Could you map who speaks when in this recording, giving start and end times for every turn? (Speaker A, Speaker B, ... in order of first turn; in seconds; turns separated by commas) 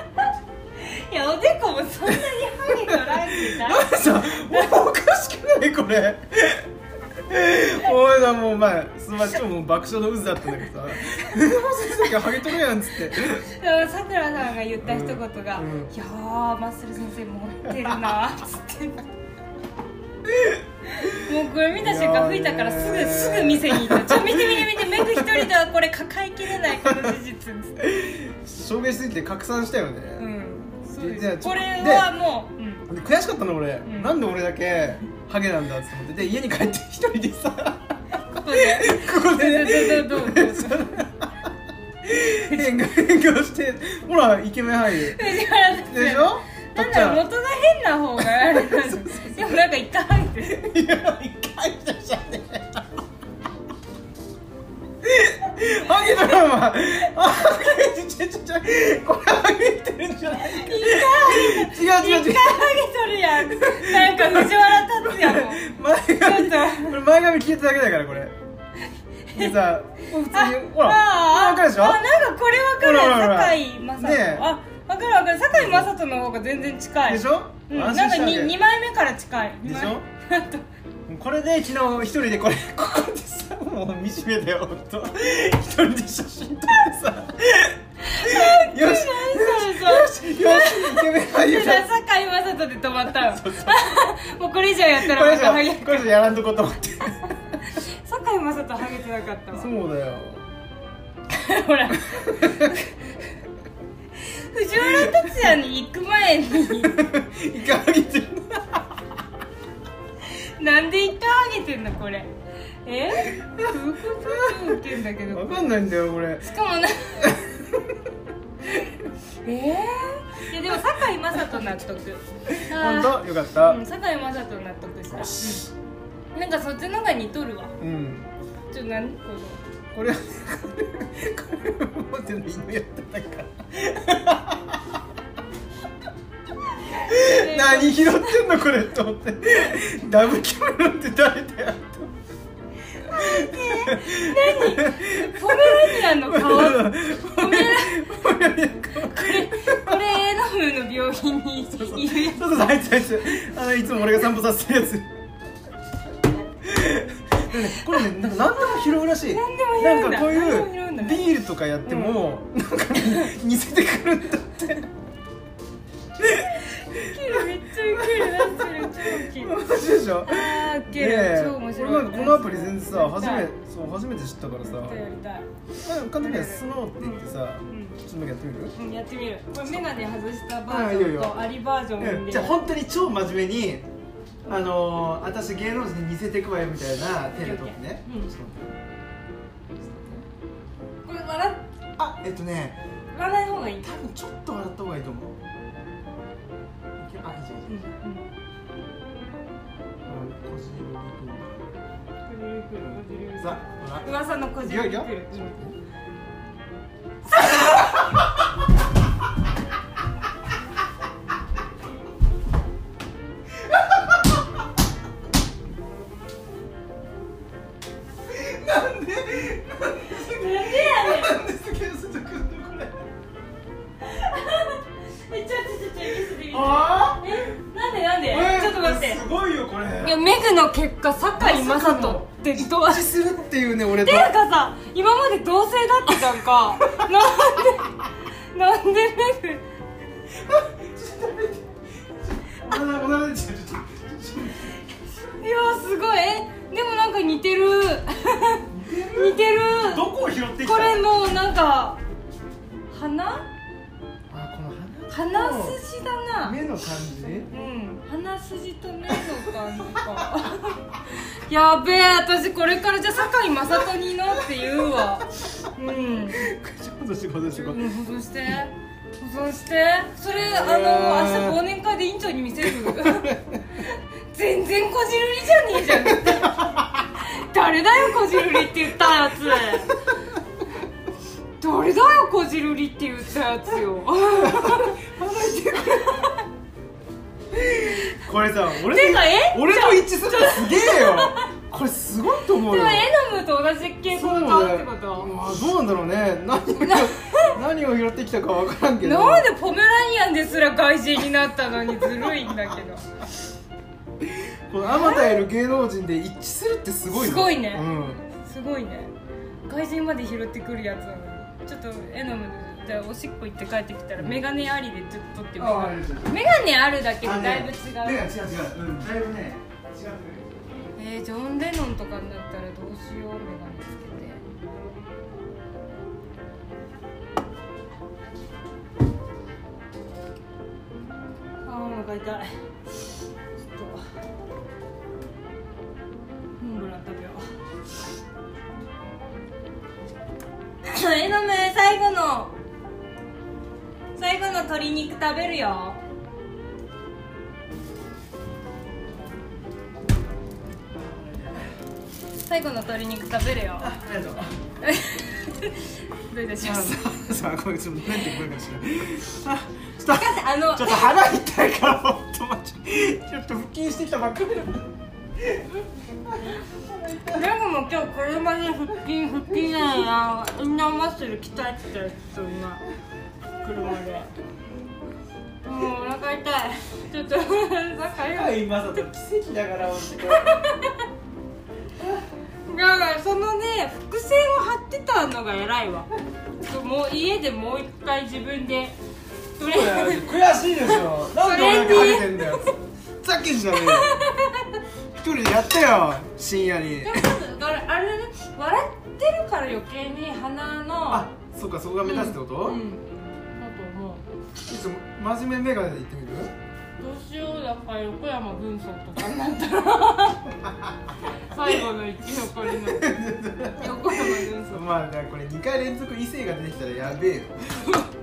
Speaker A: 0.2-4.7, Speaker B: 2.7-13.5, Speaker A: 13.1-19.0, Speaker B: 14.8-15.9, Speaker B: 20.2-25.5, Speaker A: 20.9-27.8, Speaker B: 26.7-27.2, Speaker B: 27.8-30.3, Speaker A: 30.2-32.9, Speaker B: 31.0-32.1, Speaker B: 32.9-41.3, Speaker A: 33.8-34.2, Speaker A: 38.3-41.1, Speaker B: 42.0-47.2, Speaker A: 42.4-42.8, Speaker A: 45.0-50.6, Speaker B: 48.4-49.6, Speaker B: 50.4-53.0, Speaker B: 55.0-62.8, Speaker A: 60.3-67.0, Speaker B: 63.3-68.3, Speaker A: 69.3-69.6, Speaker B: 69.3-72.0, Speaker A: 70.3-80.6, Speaker B: 72.8-74.5, Speaker B: 75.5-75.9, Speaker B: 77.0-78.5, Speaker B: 79.6-80.0, Speaker B: 81.1-91.9, Speaker A: 88.0-96.1, Speaker B: 93.2-93.8, Speaker B: 94.9-97.6, Speaker A: 97.6-99.7, Speaker B: 99.5-100.5, Speaker A: 101.3-102.9, Speaker B: 102.1-102.8, Speaker A: 104.2-107.1, Speaker B: 104.8-105.5, Speaker B: 106.8-109.0, Speaker A: 110.2-115.7, Speaker B: 113.2-116.5, Speaker A: 116.4-117.4, Speaker B: 117.2-118.0, Speaker A: 119.4-125.7, Speaker B: 122.5-123.8, Speaker B: 125.1-125.6, Speaker A: 126.3-127.8, Speaker B: 127.8-128.3, Speaker A: 128.7-129.6, Speaker B: 129.9-135.0, Speaker A: 136.7-138.4, Speaker B: 137.0-142.1, Speaker A: 142.9-148.1, Speaker B: 143.1-150.0, Speaker A: 149.0-152.6, Speaker B: 151.7-155.1, Speaker B: 156.6-164.9, Speaker A: 159.2-161.3, Speaker A: 161.8-162.3, Speaker B: 166.2-175.0, Speaker A: 166.3-169.6, Speaker A: 170.2-173.5, Speaker A: 174.6-175.5, Speaker B: 175.8-178.7, Speaker A: 176.2-178.0, Speaker A: 178.7-182.6, Speaker B: 180.7-181.4, Speaker B: 182.0-183.8, Speaker B: 184.4-188.8, Speaker A: 187.3-188.3, Speaker B: 189.8-190.2, Speaker A: 191.0-191.6, Speaker B: 192.0-192.8, Speaker A: 193.1-194.0, Speaker B: 193.8-195.4, Speaker B: 197.0-197.9, Speaker A: 197.7-198.2, Speaker B: 200.1-201.7, Speaker A: 202.2-205.6, Speaker B: 202.8-205.7, Speaker A: 207.3-207.7, Speaker B: 213.6-214.4, Speaker B: 218.2-223.1, Speaker A: 220.1-221.4, Speaker A: 224.0-229.2, Speaker B: 226.5-227.4, Speaker B: 228.3-230.2, Speaker A: 230.0-233.2, Speaker B: 231.4-234.3, Speaker A: 233.9-239.6, Speaker B: 236.8-237.2, Speaker B: 240.3-244.8, Speaker A: 245.1-250.0, Speaker B: 248.7-251.1, Speaker A: 250.6-252.0, Speaker A: 252.9-253.5, Speaker B: 254.3-255.8, Speaker A: 255.1-256.6, Speaker B: 256.4-257.5, Speaker A: 257.5-266.5, Speaker B: 266.3-267.8, Speaker A: 267.5-280.0, Speaker B: 270.3-271.6, Speaker B: 272.7-273.6, Speaker B: 276.0-277.0, Speaker B: 279.5-280.1, Speaker A: 281.6-285.0, Speaker B: 284.3-286.3, Speaker A: 285.9-286.4, Speaker B: 287.5-293.1, Speaker A: 287.7-288.1, Speaker A: 288.7-291.5, Speaker A: 292.5-295.3, Speaker B: 294.1-299.5, Speaker A: 296.8-297.6, Speaker A: 299.0-303.1, Speaker B: 304.2-308.2, Speaker A: 304.8-305.5, Speaker A: 307.1-309.1, Speaker A: 309.7-318.3, Speaker B: 315.6-316.4, Speaker B: 317.2-320.6, Speaker A: 320.9-324.4, Speaker A: 331.6-332.5, Speaker A: 333.6-334.0, Speaker A: 336.6-337.5, Speaker A: 340.8-342.5, Speaker A: 344.1-346.0, Speaker B: 350.9-351.7, Speaker A: 352.4-354.0, Speaker B: 353.8-354.5, Speaker A: 354.8-357.1, Speaker B: 356.6-367.5, Speaker A: 360.1-361.1, Speaker A: 367.3-372.8, Speaker A: 373.6-374.3, Speaker A: 375.6-379.0, Speaker B: 378.3-380.6, Speaker A: 380.3-381.1, Speaker A: 382.6-389.0, Speaker A: 389.6-392.7, Speaker B: 389.6-394.2, Speaker A: 393.7-394.8, Speaker B: 395.1-397.3, Speaker A: 397.0-401.3, Speaker B: 401.1-402.8, Speaker A: 402.0-404.2, Speaker B: 404.6-406.5, Speaker A: 407.0-410.6, Speaker B: 410.6-410.9, Speaker A: 411.3-414.9, Speaker B: 411.6-411.9, Speaker B: 412.6-418.0, Speaker A: 417.7-418.1